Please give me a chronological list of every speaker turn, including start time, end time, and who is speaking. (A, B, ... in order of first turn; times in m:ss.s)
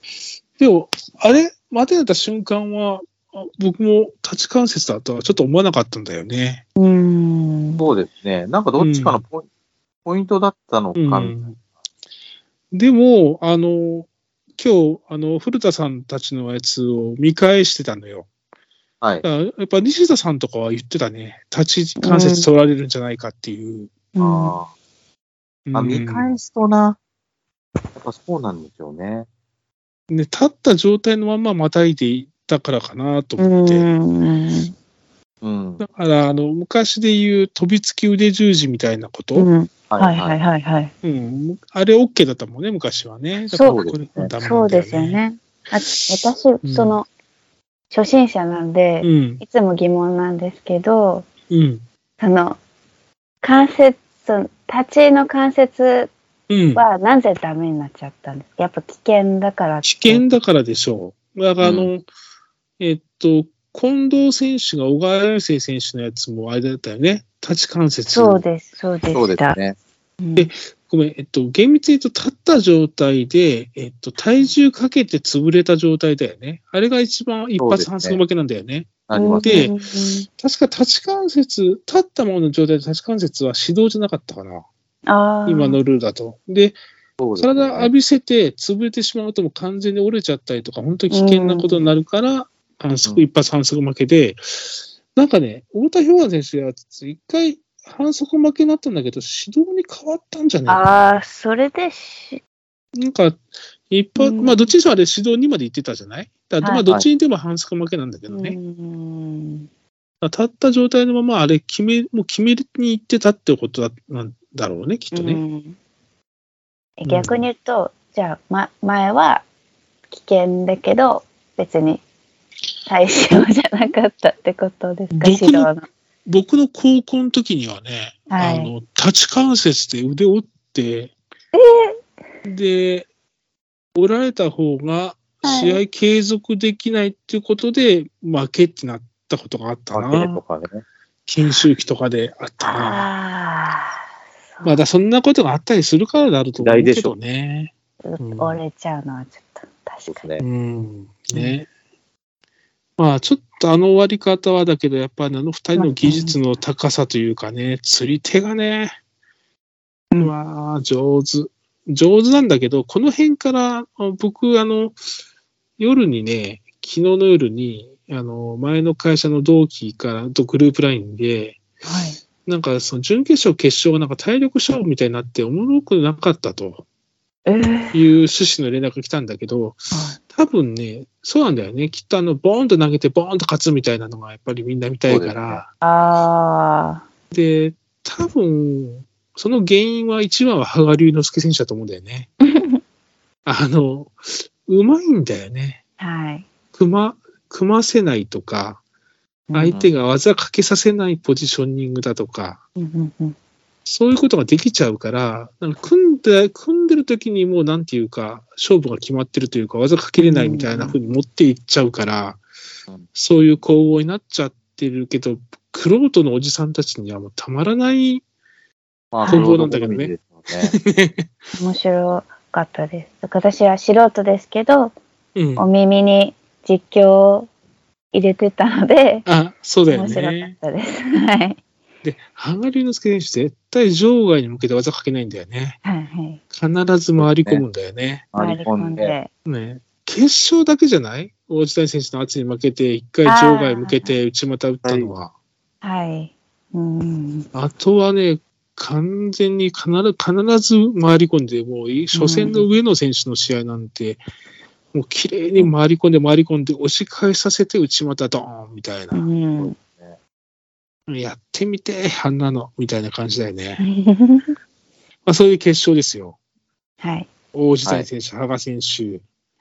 0:00.6-0:06.6 A
0:06.8-0:07.9 B
0:07.8-0:09.5 C
0:08.8-0:09.2 A
0:10.0-0:11.4 C
0:11.0-0:11.6 A
0:12.7-0:18.3 A
0:19.2-0:23.9 A
0:22.0-0:22.5 B
0:24.2-0:24.6 B
0:24.2-0:24.7 C
0:25.7-0:26.3 A
0:25.7-0:27.0 C
0:28.0-0:29.3 C
0:30.1-0:33.9 A
0:33.4-0:34.7 B
0:35.4-0:35.8 C
0:35.8-0:39.5 A
0:39.4-0:40.9 B
0:39.9-0:40.4 C
0:41.0-0:45.2 A
0:43.5-0:43.8 B
0:43.6-0:44.3 C
0:44.4-0:47.1 B
0:46.0-0:47.0 A
0:47.9-0:51.3 B
0:49.0-0:49.4 A
0:51.5-0:51.8 A
0:52.2-0:52.6 B
0:53.4-0:56.1 B
0:56.5-0:56.8 A
0:56.8-1:00.3 B
0:59.8-1:02.0 A
1:01.6-1:01.9 C
1:02.8-1:08.4 A
1:08.1-1:09.6 B
1:09.1-1:09.8 C
1:10.2-1:10.5 B
1:10.4-1:19.7 A
1:17.6-1:18.2 C
1:19.1-1:19.7 C
1:19.1-1:20.3 B
1:20.4-1:24.7 A
1:25.1-1:25.8 B
1:25.5-1:26.8 A
1:27.2-1:27.9 C
1:27.4-1:40.9 A
1:31.1-1:31.9 B
1:40.7-1:42.4 B
1:43.0-1:48.6 A
1:44.2-1:44.7 B
1:48.3-1:49.7 B
1:50.2-1:55.4 A
1:55.1-1:55.8 B
1:57.0-1:59.4 B
1:57.0-1:57.5 A
2:00.1-2:02.0 B
2:02.9-2:05.9 B
2:05.1-2:05.7 A
2:06.3-2:11.1 A
2:08.3-2:08.7 B
2:11.5-2:12.0 B
2:12.5-2:13.1 A
2:14.0-2:20.4 A
2:15.4-2:15.8 B
2:19.9-2:20.8 C
2:21.3-2:23.1 A
2:22.6-2:24.0 B
2:24.5-2:24.8 B
2:24.6-2:28.6 A
2:26.6-2:27.2 C
2:28.0-2:30.2 B
2:30.1-2:30.4 C
2:30.4-2:31.7 A
2:33.0-2:39.0 A
2:35.8-2:36.4 B
2:40.2-2:45.0 A
2:45.8-2:51.6 A
2:51.8-2:52.2 B
2:52.5-2:56.8 A
2:57.5-2:58.1 B
2:57.9-3:05.7 A
2:59.9-3:00.2 B
3:05.1-3:05.6 C
3:05.8-3:07.0 B
3:07.3-3:12.3 A
3:12.4-3:12.8 B
3:13.5-3:15.8 A
3:16.0-3:16.5 B
3:16.7-3:18.8 A
3:19.5-3:19.8 B
3:19.5-3:22.6 A
3:22.8-3:23.4 B
3:23.9-3:32.4 A
3:30.2-3:31.0 B
3:33.2-3:38.2 A
3:39.1-3:40.8 C
3:39.2-3:39.5 B
3:39.3-3:40.1 A
3:40.7-3:41.3 A
3:41.5-3:44.9 B
3:45.4-3:45.7 A
3:45.6-3:47.5 B
3:48.1-3:49.3 B
3:49.3-3:50.6 A
3:49.9-3:51.6 B
3:52.0-3:55.8 A
3:55.8-3:56.4 B
3:56.5-3:58.3 A
3:57.2-3:57.6 C
3:58.3-3:59.2 C
3:58.4-3:59.3 B
3:59.5-4:05.3 A
4:03.2-4:04.1 B
4:04.8-4:05.1 C
4:05.8-4:07.5 B
4:07.6-4:14.2 A
4:12.1-4:12.6 B
4:14.9-4:19.3 A
4:19.1-4:19.8 B
4:19.6-4:20.2 C
4:21.1-4:23.8 A
4:23.8-4:24.5 B
4:25.3-4:26.4 A
4:27.0-4:27.3 B
4:27.5-4:29.2 A